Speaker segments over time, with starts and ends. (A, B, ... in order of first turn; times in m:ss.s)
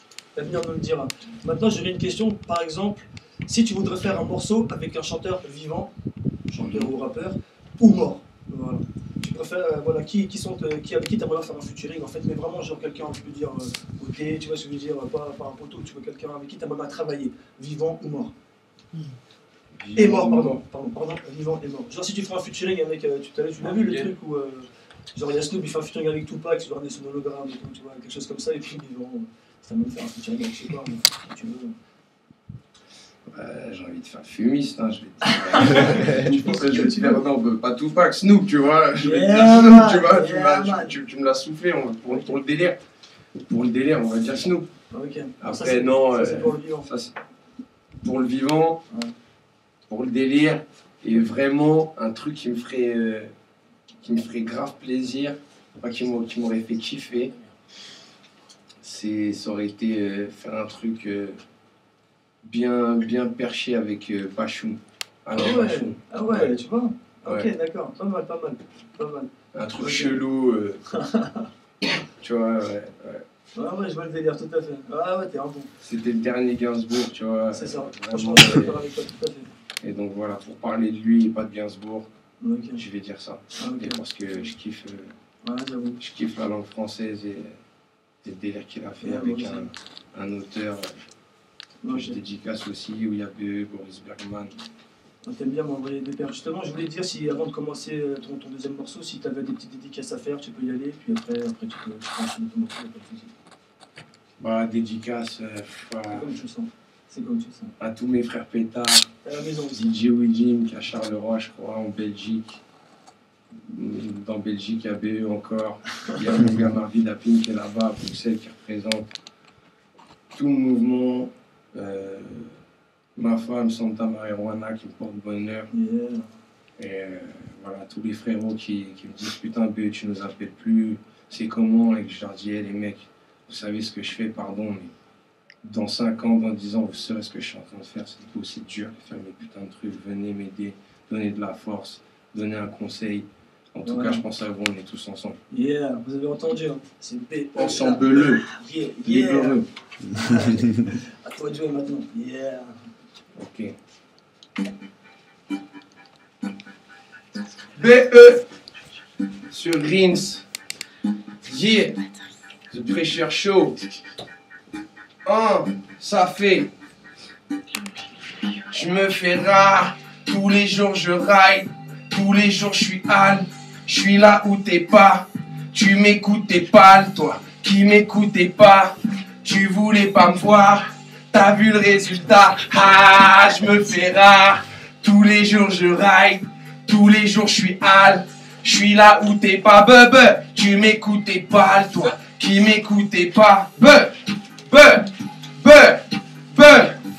0:00.3-0:05.9 A
0:06.5-0:18.3 A
0:06.6-0:06.9 B
0:19.7-0:20.6 B
0:20.0-0:31.7 A
0:23.6-0:24.1 B
0:33.3-0:42.8 B
0:35.3-0:37.2 A
0:39.0-0:40.9 A
0:43.5-0:44.7 B
0:44.9-0:46.9 A
0:45.4-0:47.2 B
0:48.0-0:48.8 B
0:49.9-0:53.3 B
0:54.0-0:57.3 B
0:58.8-1:01.4 B
1:02.4-1:06.5 B
1:05.3-1:10.2 A
1:09.5-1:10.8 B
1:10.9-1:11.5 A
1:12.0-1:13.2 B
1:13.6-1:15.7 A
1:15.8-1:18.8 B
1:17.5-1:19.5 A
1:19.8-1:22.1 B
1:22.4-1:22.8 A
1:22.8-1:25.1 B
1:23.6-1:24.0 A
1:25.4-1:26.0 A
1:26.0-1:27.5 B
1:28.2-1:30.9 B
1:29.0-1:29.7 A
1:31.8-1:32.2 A
1:31.9-1:34.5 B
1:35.2-1:43.3 A
1:44.4-1:46.3 B
1:46.1-1:47.7 A
1:47.8-1:49.1 B
1:49.2-1:49.8 A
1:49.7-1:52.6 B
1:53.7-1:59.1 B
2:00.3-2:02.5 B
2:03.2-2:05.7 B
2:05.7-2:06.3 A
2:06.8-2:14.9 B
2:15.6-2:25.4 B
2:23.8-2:24.2 A
2:25.5-2:32.7 A
2:27.5-2:28.5 B
2:29.0-2:29.7 B
2:33.4-2:33.7 B
2:37.8-2:38.4 B
2:39.5-2:40.4 B
2:41.4-2:42.0 B
2:42.7-2:43.8 B
2:45.2-2:46.7 B
2:48.7-3:14.1 B
3:14.7-3:17.0 B